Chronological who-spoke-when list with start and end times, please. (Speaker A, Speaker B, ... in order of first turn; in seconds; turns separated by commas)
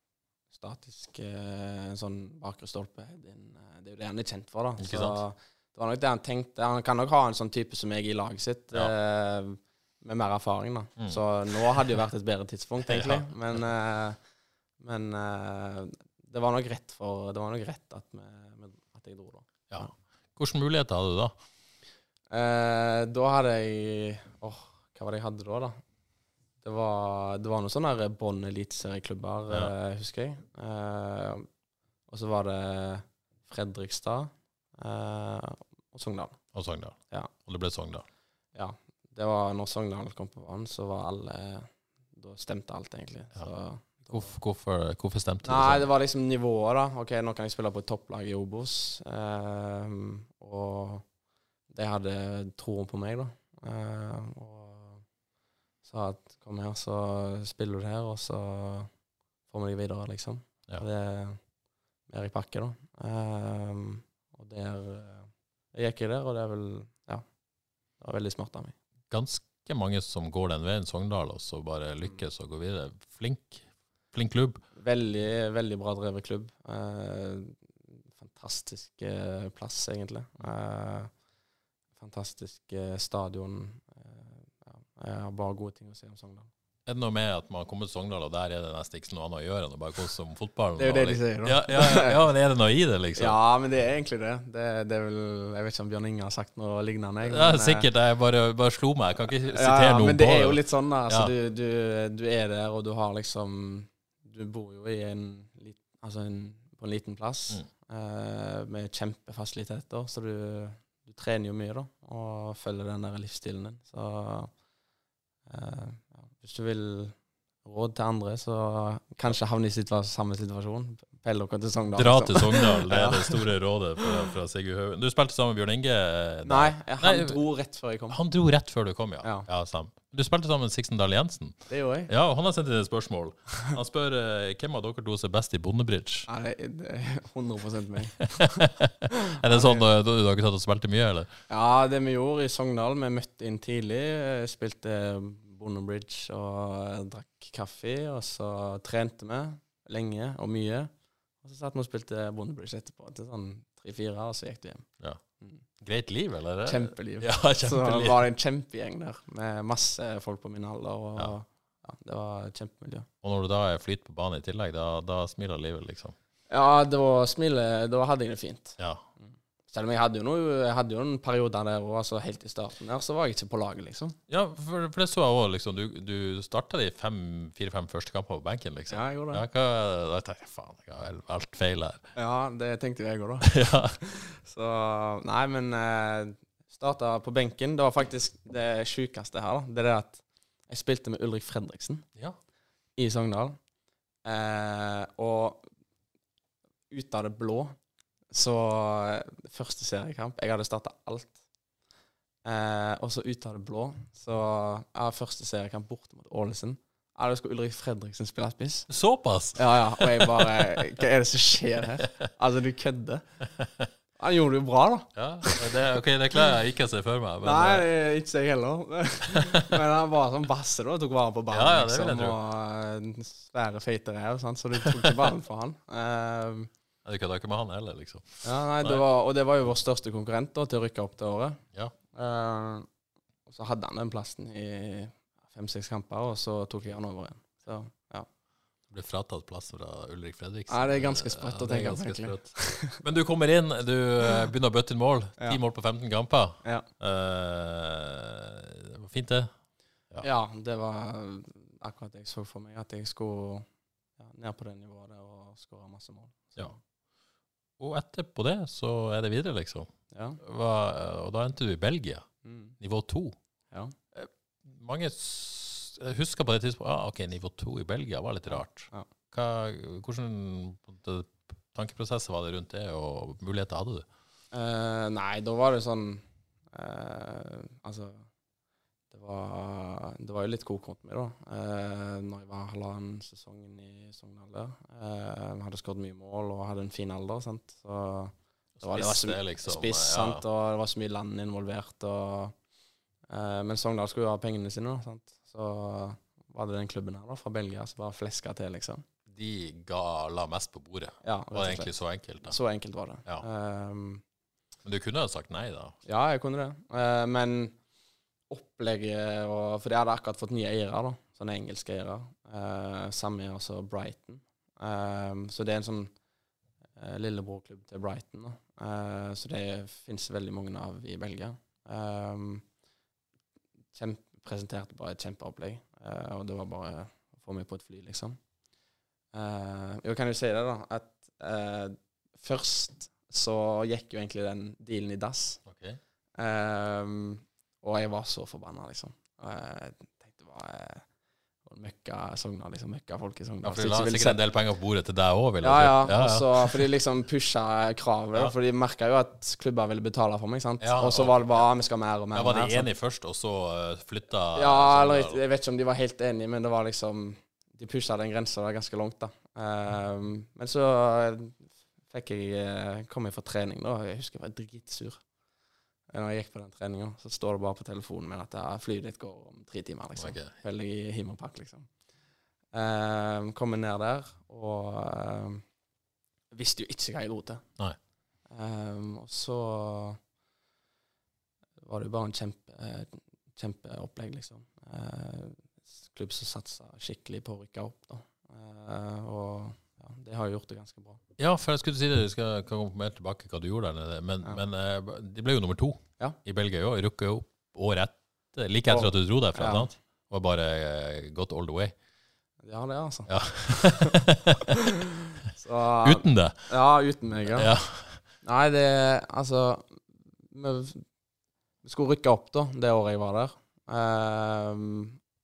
Speaker A: 0.5-14.2, Speaker B: 4.8-5.2, Speaker B: 11.0-11.9, Speaker B: 12.8-13.7, Speaker A: 14.8-19.9, Speaker B: 19.7-21.3, Speaker A: 22.3-25.8, Speaker A: 26.6-31.4, Speaker A: 32.1-36.4, Speaker B: 36.5-38.0, Speaker A: 38.5-44.3, Speaker B: 43.4-45.9, Speaker A: 45.4-51.1, Speaker A: 51.7-55.0, Speaker A: 55.8-58.9, Speaker A: 59.5-61.4, Speaker A: 62.1-67.2, Speaker A: 68.0-68.7, Speaker B: 69.1-74.6, Speaker A: 74.8-77.5, Speaker A: 78.1-81.1, Speaker A: 82.0-86.5, Speaker B: 86.8-93.3, Speaker A: 90.8-92.2, Speaker A: 93.2-97.8, Speaker B: 97.2-101.3, Speaker A: 99.4-114.5, Speaker A: 115.5-123.4, Speaker B: 121.9-127.4, Speaker A: 126.4-128.2, Speaker B: 128.1-136.3, Speaker A: 129.2-129.5, Speaker A: 131.7-132.1, Speaker A: 136.3-138.5, Speaker B: 138.4-141.3, Speaker A: 139.4-139.8, Speaker A: 141.5-150.9, Speaker A: 151.4-154.9, Speaker B: 155.8-158.2, Speaker A: 156.7-163.1, Speaker B: 163.2-166.1, Speaker A: 166.5-174.2, Speaker B: 174.3-182.1, Speaker A: 178.9-179.4, Speaker A: 182.2-192.1, Speaker B: 183.4-183.9, Speaker A: 193.0-193.6, Speaker A: 194.2-195.6, Speaker A: 196.9-197.7, Speaker A: 198.3-201.4, Speaker A: 202.4-208.9, Speaker B: 208.9-210.8, Speaker A: 209.5-213.2, Speaker B: 213.6-213.9, Speaker A: 214.2-215.7, Speaker B: 215.1-217.9, Speaker A: 217.4-226.7, Speaker B: 221.5-222.4, Speaker B: 227.0-229.0, Speaker A: 228.4-231.6, Speaker A: 232.1-232.8, Speaker A: 233.5-238.3, Speaker B: 238.9-249.5, Speaker A: 240.7-243.0, Speaker A: 250.2-253.7, Speaker A: 254.2-256.8, Speaker B: 257.8-263.3, Speaker A: 260.1-260.4, Speaker A: 262.4-262.8, Speaker B: 264.1-274.1, Speaker A: 268.5-269.1, Speaker A: 274.5-278.3, Speaker A: 279.1-292.5, Speaker B: 288.8-290.4, Speaker A: 293.3-299.0, Speaker B: 299.3-302.6, Speaker A: 301.2-304.2, Speaker B: 304.8-305.9, Speaker A: 306.1-307.7, Speaker A: 308.5-316.1, Speaker A: 317.0-322.6, Speaker A: 323.9-328.4, Speaker A: 329.3-335.6, Speaker B: 335.6-336.0, Speaker A: 336.4-341.0, Speaker A: 341.6-344.4, Speaker B: 343.6-346.9, Speaker A: 345.6-352.9, Speaker B: 350.8-351.6, Speaker B: 352.3-355.4, Speaker A: 354.5-365.2, Speaker A: 366.1-371.9, Speaker B: 370.2-370.5, Speaker A: 372.7-375.6, Speaker A: 376.5-377.6, Speaker A: 378.5-380.2, Speaker A: 381.8-391.2, Speaker B: 391.4-401.9, Speaker A: 398.9-399.9, Speaker A: 402.6-404.1, Speaker B: 403.3-404.6, Speaker A: 405.5-411.0, Speaker B: 406.0-406.7, Speaker B: 407.5-408.2, Speaker A: 411.8-415.1